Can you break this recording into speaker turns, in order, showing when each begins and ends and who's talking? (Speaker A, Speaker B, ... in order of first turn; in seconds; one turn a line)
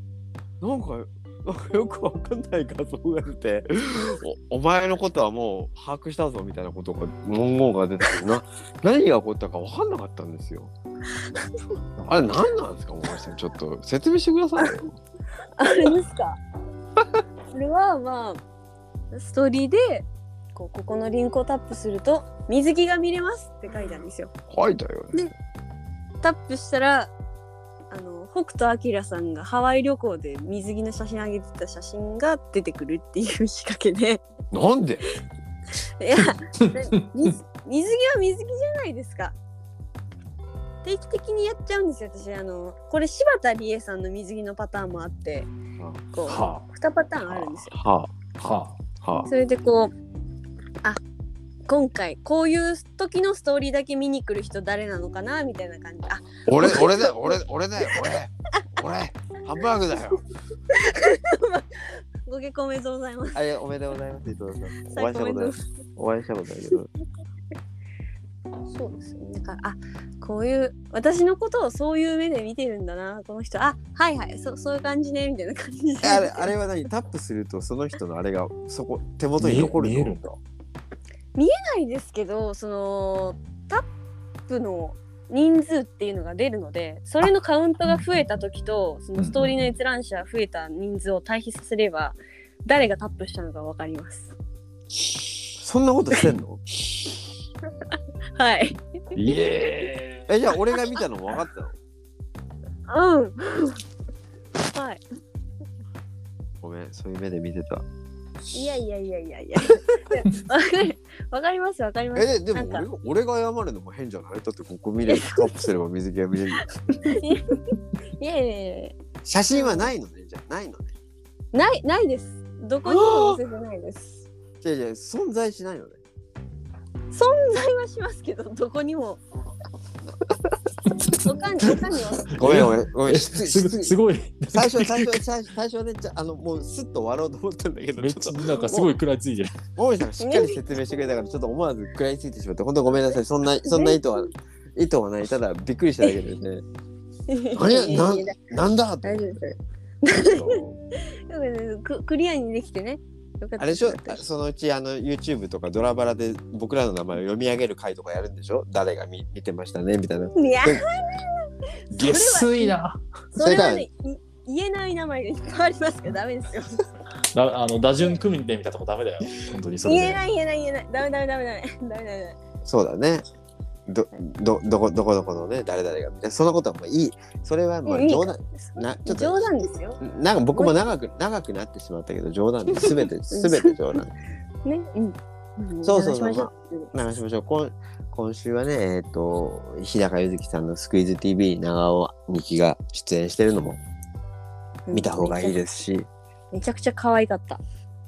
Speaker A: 0.6-10.7
Speaker B: 12.0-12.3
Speaker A: 12.1-15.0
Speaker C: 15.6-16.4
Speaker C: 17.5-18.4
Speaker C: 19.1-24.3
Speaker A: 24.5-25.3
Speaker C: 26.2-27.1
Speaker C: 27.9-34.2
Speaker A: 34.5-35.0
Speaker C: 36.0-39.4
Speaker C: 40.8-45.5
Speaker C: 46.1-47.7
Speaker B: 46.3-46.7
Speaker A: 47.7-49.3
Speaker B: 48.4-48.8
Speaker C: 49.2-49.9
Speaker C: 51.7-58.0
Speaker A: 56.5-60.2
Speaker C: 60.7-63.4
Speaker A: 63.3-66.9
Speaker C: 64.9-65.6
Speaker C: 68.7-76.5
Speaker A: 76.0-80.2
Speaker B: 79.4-80.4
Speaker C: 81.3-83.8
Speaker C: 84.5-94.3
Speaker B: 89.2-89.8
Speaker A: 95.6-96.6
Speaker C: 97.9-98.8
Speaker B: 99.2-100.3
Speaker A: 100.3-101.8
Speaker C: 102.9-103.8
Speaker C: 104.7-105.0
Speaker A: 106.6-107.8
Speaker C: 108.5-112.8
Speaker A: 112.2-116.7
Speaker C: 115.1-115.5
Speaker C: 116.9-119.0
Speaker A: 119.2-120.9
Speaker C: 119.5-119.9
Speaker C: 121.5-124.3
Speaker A: 122.8-123.4
Speaker A: 124.6-126.0
Speaker C: 127.1-129.2
Speaker C: 131.1-132.6
Speaker A: 132.3-133.9
Speaker B: 132.4-135.2
Speaker A: 134.5-138.9
Speaker B: 138.0-139.5
Speaker A: 139.6-146.6
Speaker C: 140.2-140.6
Speaker C: 143.7-144.3
Speaker C: 147.3-148.4
Speaker A: 147.5-149.4
Speaker C: 149.0-154.2
Speaker A: 150.2-150.8
Speaker A: 153.6-160.8
Speaker C: 160.4-162.8
Speaker B: 161.9-163.0
Speaker C: 163.3-166.8
Speaker A: 163.4-163.9
Speaker B: 167.3-170.2
Speaker C: 169.8-172.4
Speaker A: 172.7-173.2
Speaker A: 173.9-179.5
Speaker C: 177.9-180.0
Speaker A: 180.0-184.1
Speaker C: 182.8-183.8
Speaker C: 184.7-186.9
Speaker A: 185.8-193.8
Speaker C: 194.9-195.6
Speaker A: 194.9-196.1
Speaker C: 196.5-197.6